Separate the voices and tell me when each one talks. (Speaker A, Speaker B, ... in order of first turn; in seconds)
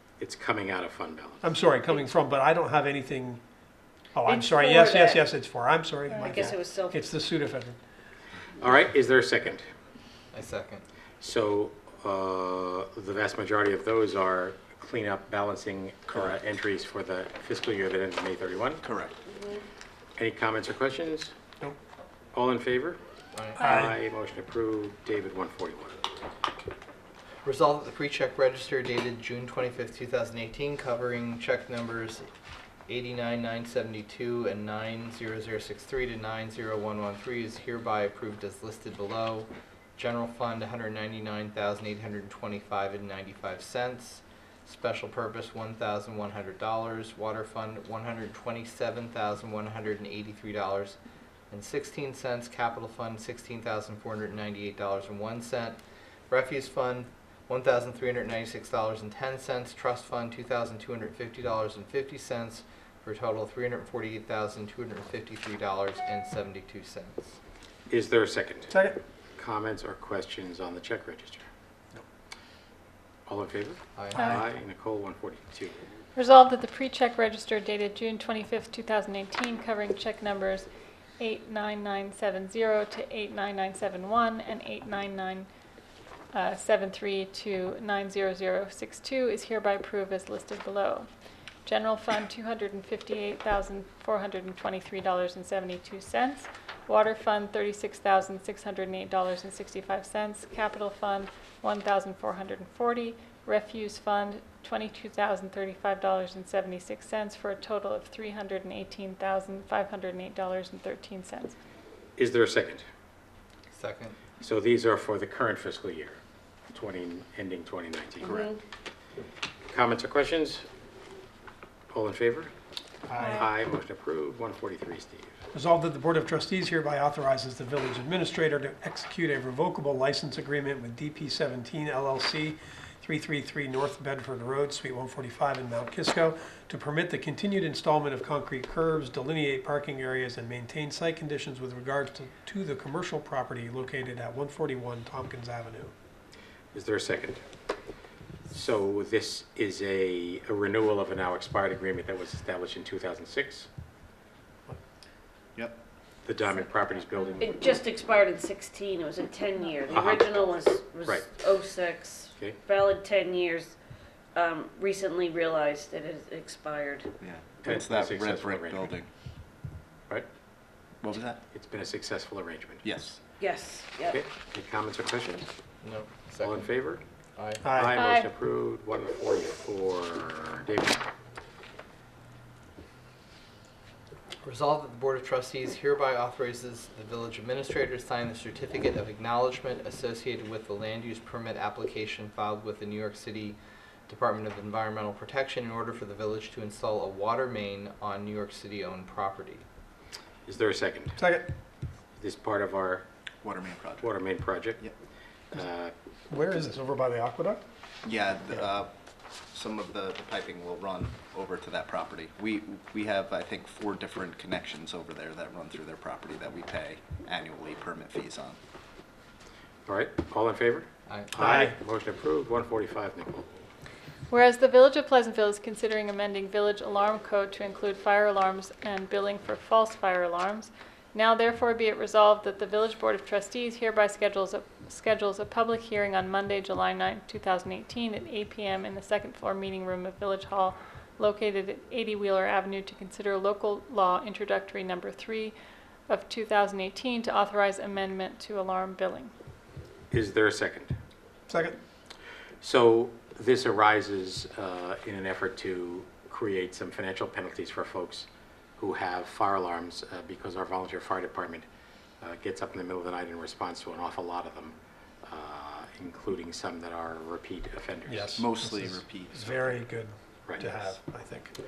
Speaker A: 0.2-1.4, 8.6-9.7, 11.2-18.8, 20.2-21.3, 22.3-23.0, 23.6-26.0, 67.9-68.7, 69.4-71.4, 73.2-75.8, 112.2-112.8, 114.4-116.2, 116.7-118.5, 119.7-120.7, 121.9-122.5, 123.2-125.3, 146.7-147.4, 148.5-153.7, 156.2-157.5, 159.9-160.3, 167.6-168.9, 171.5-172.8, 174.1-175.5, 176.4-177.0, 177.6-181.0, 200.4-201.2, 202.2-203.0, 204.0-204.9, 205.5-205.9, 219.8-223.7, 250.1-250.9, 252.6-261.6, 262.2-268.4
Speaker B: 1.4-3.4, 4.1-7.8, 23.6-23.9, 68.7-69.0, 123.1-123.5, 125.5-145.9, 177.6-178.0, 201.2-201.5, 206.3-207.6, 221.4-221.7, 251.5-251.8, 268.1-271.5
Speaker C: 4.2-5.3, 6.2-7.0, 19.3-19.6, 157.4-163.7, 164.3-167.1, 173.4-174.2
Speaker D: 10.3-10.8, 23.3-23.7, 27.4-32.3, 32.9-51.0, 51.5-55.8, 56.3-67.4, 74.0-74.4, 113.7-114.2, 175.8-176.7, 177.3-177.7, 184.4-199.6, 221.1-221.6
Speaker E: 18.8-19.1, 167.2-169.1, 171.0-171.4, 172.8-173.2, 203.4-204.2, 208.0-208.9, 209.5-218.6, 268.4-269.7
Speaker F: 74.2-74.4, 76.1-80.7, 81.2-85.5, 86.3-91.1, 91.7-111.5, 177.9-178.3, 224.3-245.5, 246.1-249.3